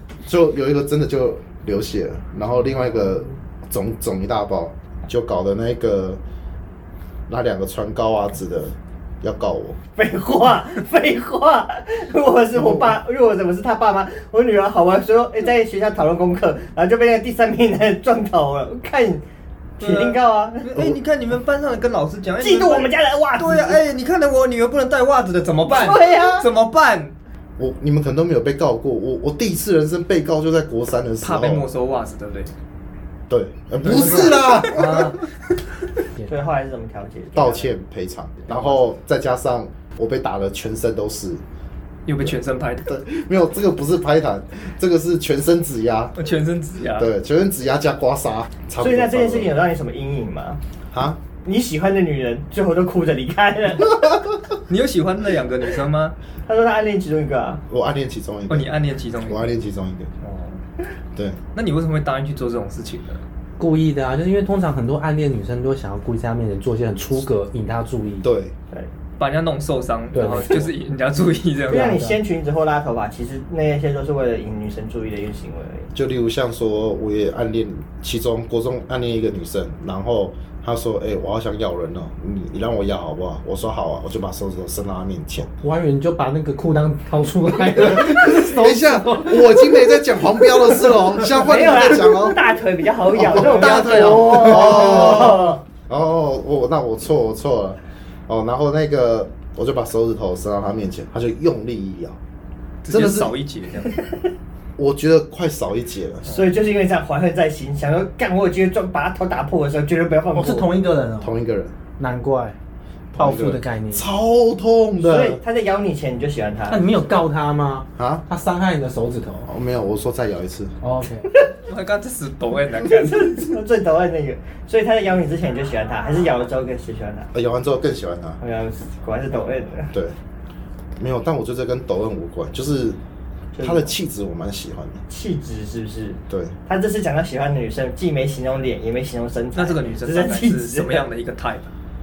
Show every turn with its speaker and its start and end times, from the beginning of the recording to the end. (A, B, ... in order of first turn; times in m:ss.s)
0:00.2-0:06.2 A
0:07.3-0:09.8 A
0:10.0-0:19.2 B
0:12.6-0:12.9 A
0:19.8-0:20.7 B
0:19.8-0:27.1 C
0:22.4-0:23.8 B
0:25.6-0:26.5 B
0:27.6-0:31.7 A
0:31.2-0:32.5 C
0:33.3-0:35.2 A
0:33.8-0:34.7 C
0:33.8-0:35.2 D
0:36.3-0:37.7 B
0:37.3-0:41.4 A
0:42.0-0:42.9 C
0:42.2-0:46.1 A
0:46.2-0:47.1 C
0:47.0-0:49.5 A
0:48.8-0:50.6 B
0:50.9-0:51.2 A
0:51.4-0:54.1 B
0:54.7-0:56.1 C
0:56.5-0:57.6 B
0:57.7-0:58.7 A
0:58.5-0:59.5 C
0:59.2-1:00.1 A
1:00.2-1:00.6 C
1:01.5-1:03.2 C
1:03.6-1:08.3 D
1:08.2-1:08.5 A
1:09.2-1:12.2 C
1:10.1-1:10.7 D
1:11.7-1:15.9 B
1:11.7-1:12.1 D
1:15.9-1:25.5 A
1:25.6-1:31.3 D
1:27.8-1:32.5 A
1:31.3-1:35.6 B
1:33.1-1:42.2 A
1:33.4-1:35.4 D
1:42.8-1:44.0 C
1:42.9-1:43.3 A
1:44.8-1:46.2 A
1:46.3-1:50.7 B
1:50.3-1:51.4 D
1:51.2-1:51.7 A
1:52.0-1:52.6 D
1:53.1-1:55.4 A
1:53.2-1:54.1 D
1:55.0-1:56.8 B
1:56.7-1:59.5 D
1:58.0-1:58.2 A
1:59.4-2:00.8 A
2:00.8-2:01.3 D
2:01.6-2:03.5 C
2:02.8-2:07.3 B
2:07.3-2:08.4 A
2:08.4-2:09.9 B
2:11.0-2:13.0 A
2:13.5-2:14.0 B
2:13.6-2:15.0 A
2:15.1-2:21.0 B
2:16.3-2:16.5 A
2:19.5-2:21.7 C